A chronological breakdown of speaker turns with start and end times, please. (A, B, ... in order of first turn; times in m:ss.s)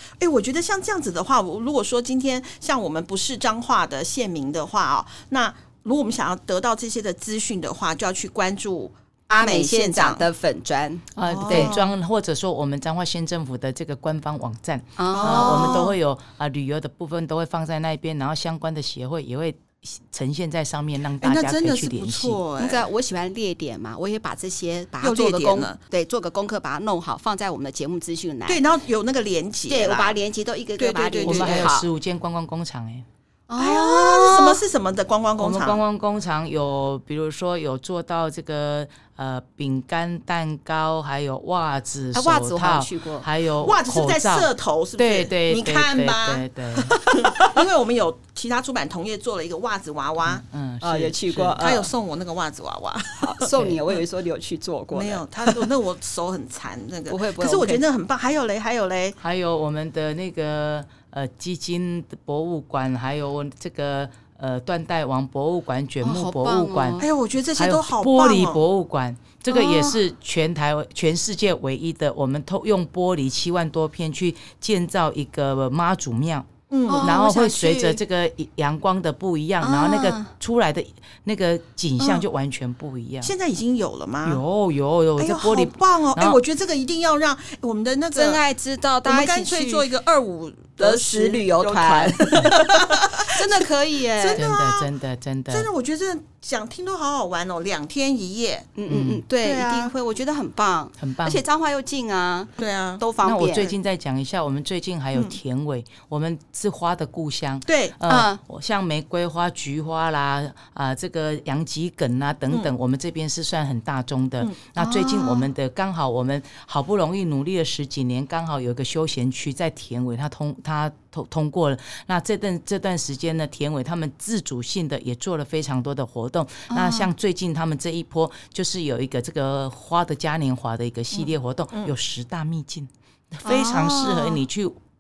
0:00.2-0:10.3 A
0:09.3-0:11.7 B
0:11.2-0:22.4 C
0:11.2-0:11.9 A
0:15.0-0:15.9 B
0:15.2-0:16.0 A
0:21.2-0:22.9 A
0:22.6-0:28.6 B
0:25.0-0:25.8 A
0:28.5-0:30.2 A
0:29.7-0:31.9 B
0:30.8-0:31.8 A
0:31.2-0:33.0 C
0:33.5-0:34.6 B
0:33.6-0:35.8 A
0:35.4-0:47.0 C
0:42.1-0:43.3 B
0:43.6-0:50.4 A
0:47.0-0:47.5 B
0:50.2-0:51.6 C
0:50.8-0:51.9 B
0:51.6-0:53.5 A
0:53.2-0:55.7 B
0:54.9-0:59.2 A
0:57.1-0:57.8 B
0:59.2-1:07.0 C
1:06.0-1:07.1 B
1:07.0-1:08.6 A
1:07.6-1:16.5 C
1:09.5-1:10.0 B
1:16.7-1:17.2 A
1:16.9-1:18.0 B
1:17.0-1:23.3 C
1:19.6-1:20.3 B
1:23.2-1:24.4 A
1:24.2-1:26.4 C
1:25.2-1:28.4 A
1:28.1-1:29.9 B
1:29.0-1:33.6 A
1:30.8-1:34.4 B
1:34.2-1:34.9 A
1:34.4-1:35.7 C
1:35.5-1:38.7 A
1:38.8-1:43.7 B
1:38.9-1:39.2 C
1:39.4-1:39.9 A
1:41.0-1:41.4 C
1:42.6-1:43.0 A
1:43.2-2:14.8 C
1:47.7-1:48.0 A
1:48.1-1:48.4 B
1:54.8-1:55.5 B
2:06.7-2:07.1 B
2:11.2-2:11.9 A
2:13.4-2:14.4 B